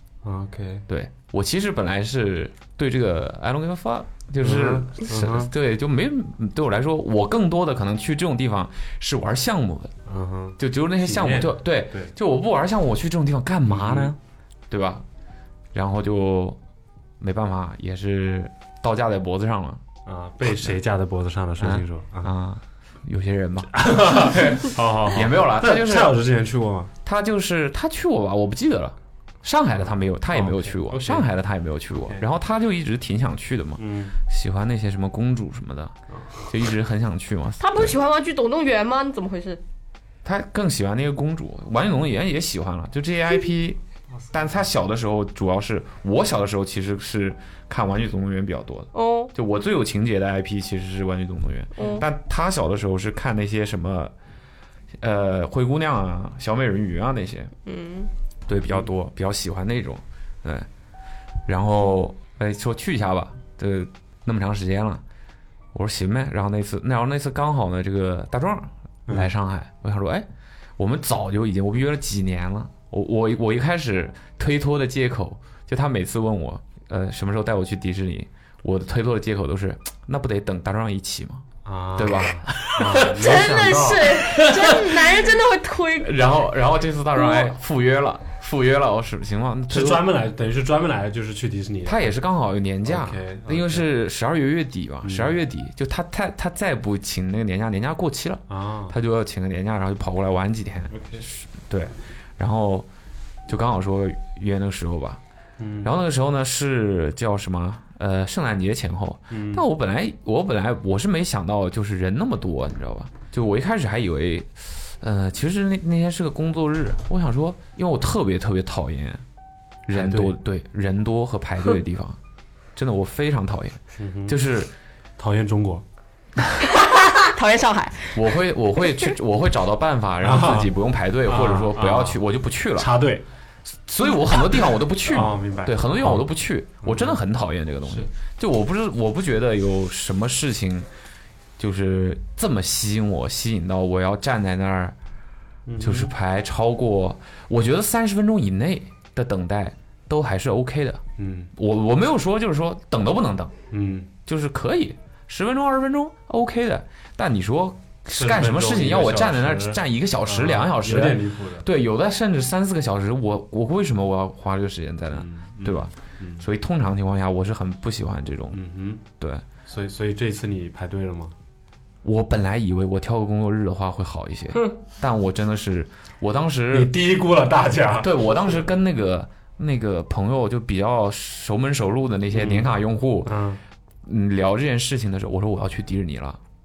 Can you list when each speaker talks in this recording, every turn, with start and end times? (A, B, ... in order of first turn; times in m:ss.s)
0:00.2-0:00.8 A
0:00.9-0:09.9 B
0:04.4-0:05.5 A
0:10.1-0:12.1 A
0:10.6-0:14.2 B
0:13.7-0:14.1 A
0:14.7-0:15.0 B
0:15.7-0:16.6 B
0:17.2-0:19.8 B
0:20.1-0:22.3 A
0:20.5-0:20.8 B
0:21.6-0:26.2 B
0:23.8-0:26.9 A
0:27.0-0:35.9 B
0:29.8-0:31.3 A
0:32.0-0:32.2 A
0:33.8-0:34.2 A
0:36.5-0:38.0 B
0:37.6-0:39.6 C
0:40.2-0:43.8 B
0:44.3-0:54.1 B
0:48.9-0:49.3 C
0:51.8-0:52.0 C
0:55.0-0:57.5 B
0:57.7-0:58.1 C
0:58.5-1:00.7 B
1:01.5-1:05.0 B
1:05.7-1:10.3 B
1:10.8-1:23.1 B
1:21.6-1:24.3 A
1:22.9-1:26.2 C
1:24.3-1:24.8 B
1:26.0-1:30.1 B
1:27.2-1:27.6 C
1:29.7-1:32.0 A
1:31.9-1:42.9 B
1:32.8-1:33.9 A
1:35.0-1:35.4 A
1:38.5-1:39.0 A
1:40.9-1:41.3 A
1:43.5-1:45.2 B
1:45.6-1:45.9 A
1:45.8-1:59.2 B
1:49.3-1:49.6 A
1:59.9-2:02.2 B
1:59.9-2:00.4 A
2:02.8-2:04.7 B
2:04.0-2:04.4 A
2:05.2-2:05.8 A
2:06.7-2:08.2 C
2:08.1-2:13.0 B
2:10.2-2:10.7 A
2:11.3-2:12.2 A
2:12.8-2:13.2 A
2:13.9-2:20.9 B
2:15.0-2:16.3 A
2:16.8-2:17.2 A
2:21.6-2:25.0 B
2:25.7-2:26.1 A
2:25.8-2:31.0 B
2:31.2-2:31.5 A
2:31.6-2:33.5 B
2:33.7-2:34.1 A
2:34.3-2:48.6 B
2:38.2-2:41.7 A
2:45.1-2:46.4 A
2:48.5-2:49.0 A
2:49.7-2:51.3 A
2:52.0-2:56.9 B
2:56.7-2:58.2 A
2:58.0-3:03.4 B
3:02.3-3:02.7 A
3:03.2-3:03.6 A
3:04.0-3:06.4 B